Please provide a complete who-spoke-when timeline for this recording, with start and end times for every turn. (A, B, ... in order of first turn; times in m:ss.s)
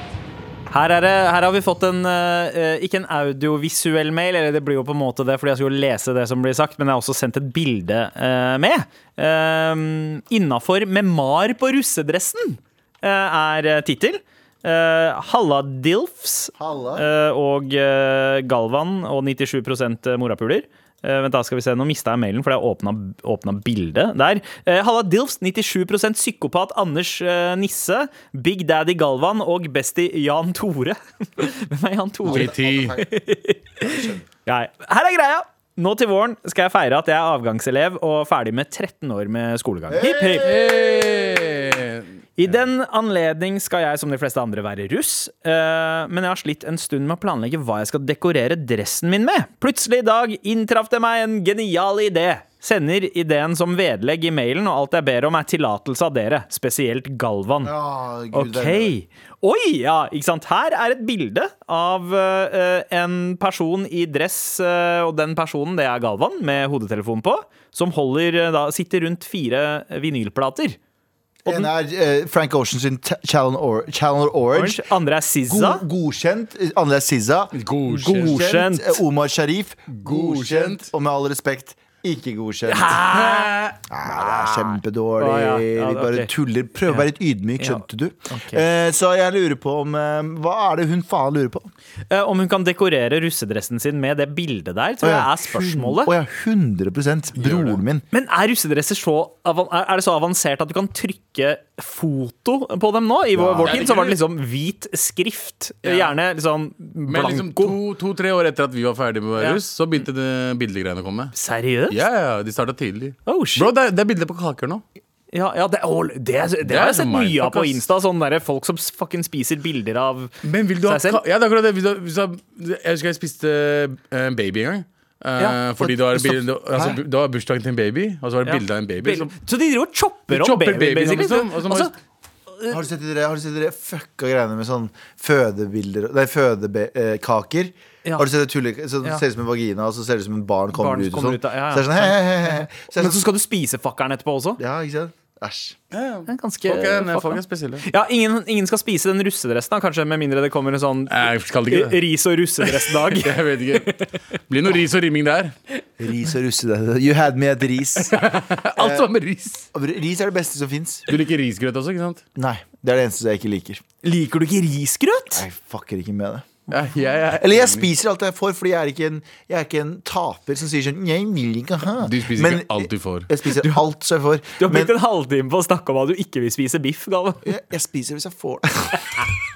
0:00.7-0:40.5 A
0:16.6-0:17.1 B
0:32.2-0:33.2 B
0:32.3-0:33.0 C
0:33.8-0:34.2 B
0:39.9-0:41.6 B
0:40.4-0:42.1 C
0:42.4-0:57.7 A
0:57.6-0:59.0 B
0:58.3-1:10.8 A
1:11.4-1:14.8 B
1:14.5-1:15.8 A
1:15.5-1:23.1 B
1:17.5-1:18.4 C
1:17.9-1:19.0 A
1:19.9-1:20.9 C
1:22.7-1:26.3 A
1:23.1-1:23.8 C
1:23.9-1:31.7 B
1:27.6-1:28.6 A
1:32.1-1:36.1 A
1:35.0-1:38.0 B
1:37.4-1:37.8 C
1:38.1-1:47.8 A
1:43.3-1:43.8 B
1:43.6-1:44.2 C
1:45.8-1:46.1 C
1:47.1-1:51.3 C
1:51.3-1:52.0 A
1:51.9-1:54.8 C
1:53.3-1:53.7 A
1:55.3-2:01.2 A
1:56.6-1:57.8 C
2:00.4-2:09.3 C
2:08.4-2:11.9 A
2:10.3-2:11.9 C
2:12.7-2:23.3 B
2:20.7-2:24.6 A
2:24.6-2:25.8 B
2:25.9-2:27.9 C
2:26.3-2:34.1 A
2:31.1-2:32.0 C
2:32.6-2:35.6 C
2:36.0-2:38.2 B
2:38.0-2:39.7 C
2:38.8-2:39.1 B
2:39.7-2:41.1 B
2:41.1-2:42.2 C
2:42.4-2:43.8 B
2:44.0-2:45.4 A
2:45.3-2:46.5 B
2:46.7-2:47.9 C
2:47.4-2:55.0 B
2:52.0-2:53.3 C
2:54.6-2:57.5 A
2:57.4-2:59.3 B